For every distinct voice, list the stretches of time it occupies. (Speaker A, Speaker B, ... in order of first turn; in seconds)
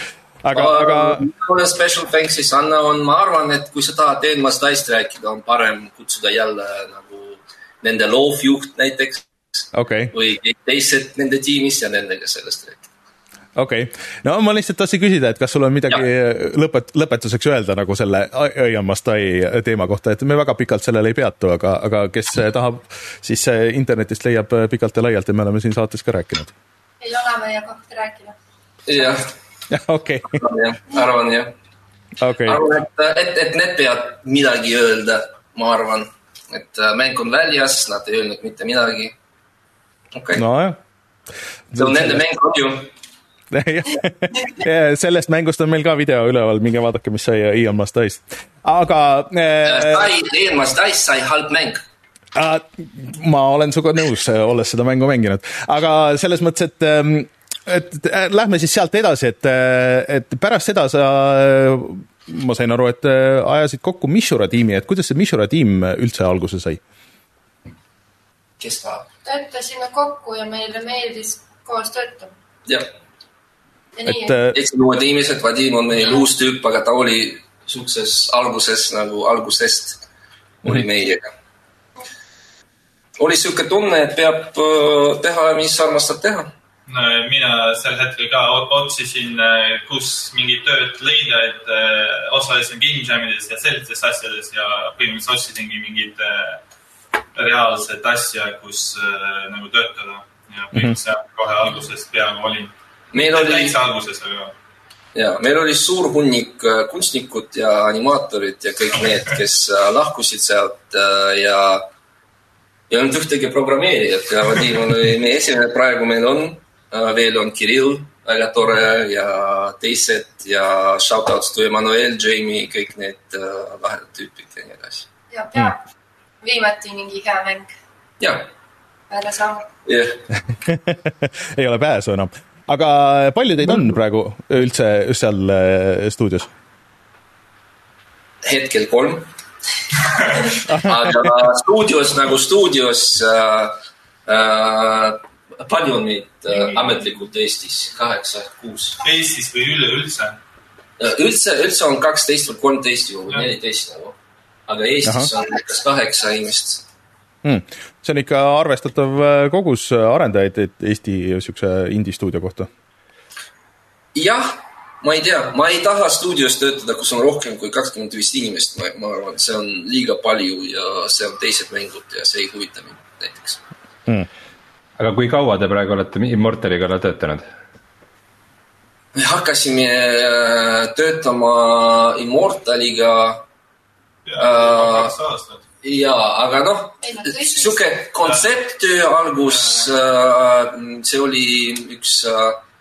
Speaker A: 0.4-1.3, 9.7-10.1, 13.6-26.5, 29.7-30.4, 32.2-32.6, 40.4-40.8, 41.7-42.2, 43.5-50.1, 52.3-66.8, 74.0-74.5, 130.5-136.5, 140.7-141.3, 157.4-162.7
Speaker B: 0.5-12.9, 28.9-29.3, 30.3-31.5, 32.4-39.1, 40.1-40.5, 41.7-42.9, 49.6-51.8, 68.6-69.1, 74.5-80.0, 80.6-81.3, 83.2-86.5, 103.1-103.8, 105.1-111.9, 112.9-125.1, 128.2-128.5, 129.8-130.2, 138.4-139.3, 140.7-149.0, 151.0-156.8, 164.1-173.6, 179.1-183.4, 184.4-185.1, 185.8-192.6
Speaker C: 27.0-28.3, 69.2-72.3, 73.9-74.4, 125.3-125.8, 126.4-127.7, 129.1-129.7, 187.0-187.8
Speaker D: 86.9-96.6, 97.3-104.5, 149.0-150.4, 184.2-185.6
Speaker E: 175.0-177.4